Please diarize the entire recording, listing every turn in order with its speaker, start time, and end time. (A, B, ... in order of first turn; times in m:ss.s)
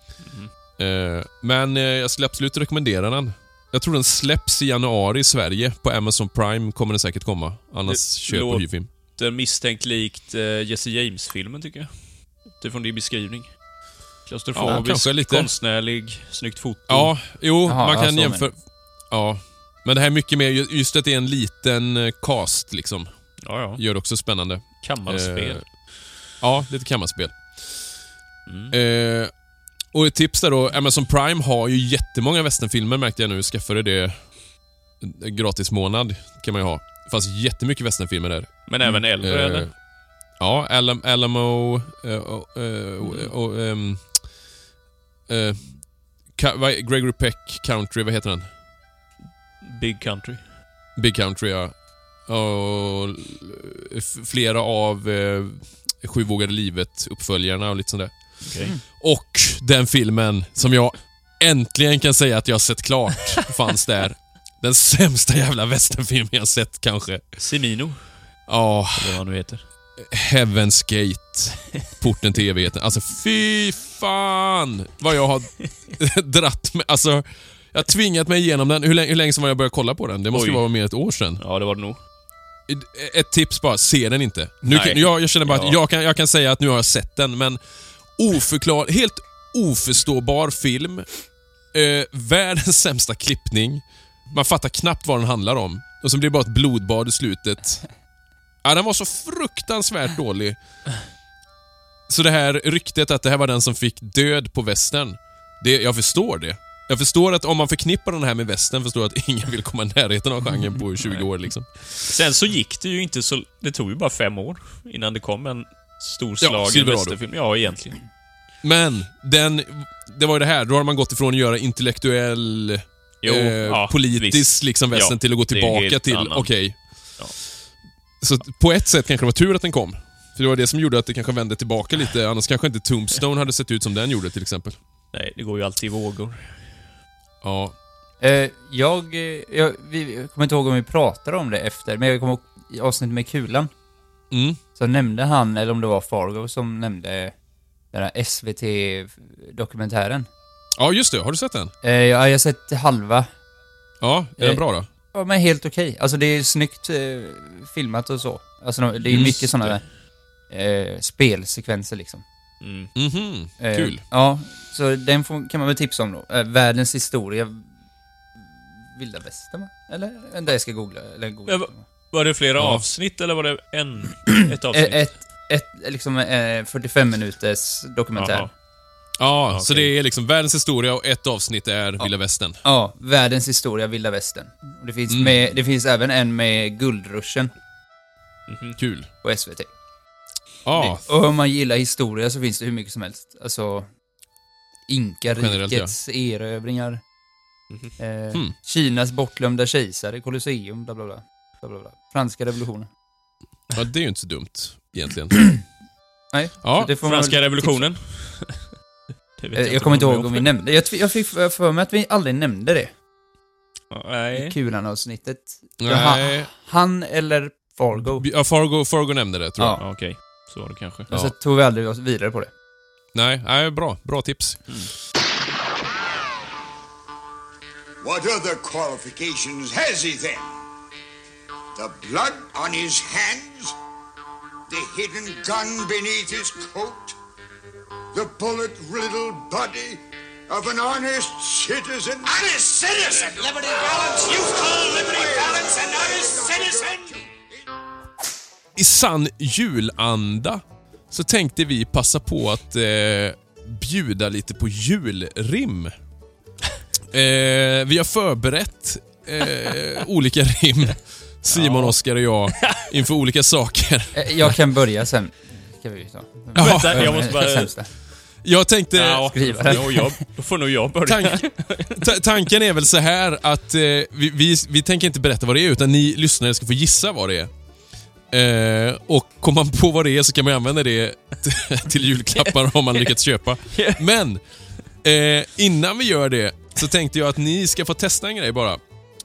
0:00.2-0:00.5 A
0:00.8-0:08.9 B
0:07.8-0:17.2 A
0:14.5-0:15.5 B
0:16.9-0:28.0 B
0:17.6-0:18.5 C
0:23.4-0:23.8 A
0:24.8-0:25.8 A
0:28.4-0:28.7 A
0:28.7-0:29.3 B
0:29.9-0:39.8 B
0:38.7-0:39.7 A
0:40.3-0:44.4 B
0:43.0-0:43.3 A
0:45.3-0:48.5 B
0:49.6-0:50.5 A
0:50.9-1:07.2 B
0:58.4-0:58.7 A
1:07.4-1:09.6 A
1:08.5-1:09.2 B
1:10.0-1:21.4 B
1:20.3-1:22.0 A
1:22.7-1:38.0 B
1:24.6-1:25.8 A
1:38.6-1:40.6 B
1:42.1-1:52.1 B
1:51.0-1:58.0 A
1:56.4-1:57.2 B
1:58.6-2:07.6 B
2:03.2-2:07.5 A
2:08.2-2:14.8 B
2:15.1-2:16.9 A
2:17.4-2:17.8 B
2:18.2-2:23.7 C
2:24.3-2:24.6 B
2:24.7-2:27.3 C
2:27.9-2:30.3 C
2:30.8-2:31.7 B
2:31.8-2:33.3 C
2:34.0-2:34.9 B
2:34.4-2:42.2 C
2:39.1-2:39.7 A
2:42.6-2:42.9 A
2:42.9-2:44.0 B
2:43.6-2:47.7 C
2:48.9-2:51.8 C
2:51.4-2:55.1 A
2:52.6-2:52.9 B
2:54.7-2:58.5 C
2:58.1-2:58.5 A
2:59.2-3:02.6 B
2:59.5-2:59.9 A
3:02.0-3:07.5 C
3:05.1-3:05.4 B
3:08.5-3:08.8 A
3:08.8-3:09.1 B
3:09.2-3:09.7 C
3:10.6-3:11.0 B
3:11.0-3:13.9 C
3:14.9-3:17.0 C
3:15.4-3:15.9 B
3:18.0-3:22.9 C
3:23.7-3:25.8 B
3:26.3-3:27.9 C
3:26.6-3:26.9 B
3:27.0-3:28.7 A
3:29.4-3:30.5 A
3:29.5-3:32.9 C
3:33.9-3:34.5 A
3:34.3-3:38.3 C
3:35.8-3:36.5 B
3:38.1-3:39.8 B
3:39.6-3:39.8 C
3:39.8-3:41.1 A
3:41.1-3:42.5 C
3:43.1-3:44.7 B
3:48.0-3:50.5 D
3:51.8-3:53.7 D
3:54.7-3:57.2 D
3:58.1-4:07.2 D
4:08.7-4:15.9 B
4:17.1-4:24.6 B
4:21.5-4:22.0 A
4:22.5-4:22.8 A
4:24.1-4:27.9 C
4:26.5-4:27.3 B
4:26.6-4:27.7 A
4:28.4-4:29.8 B
4:28.9-4:32.0 A
4:29.3-4:30.2 C
4:31.0-4:37.5 B
4:38.3-4:44.4 B
4:43.7-4:44.0 A
4:45.0-4:48.8 B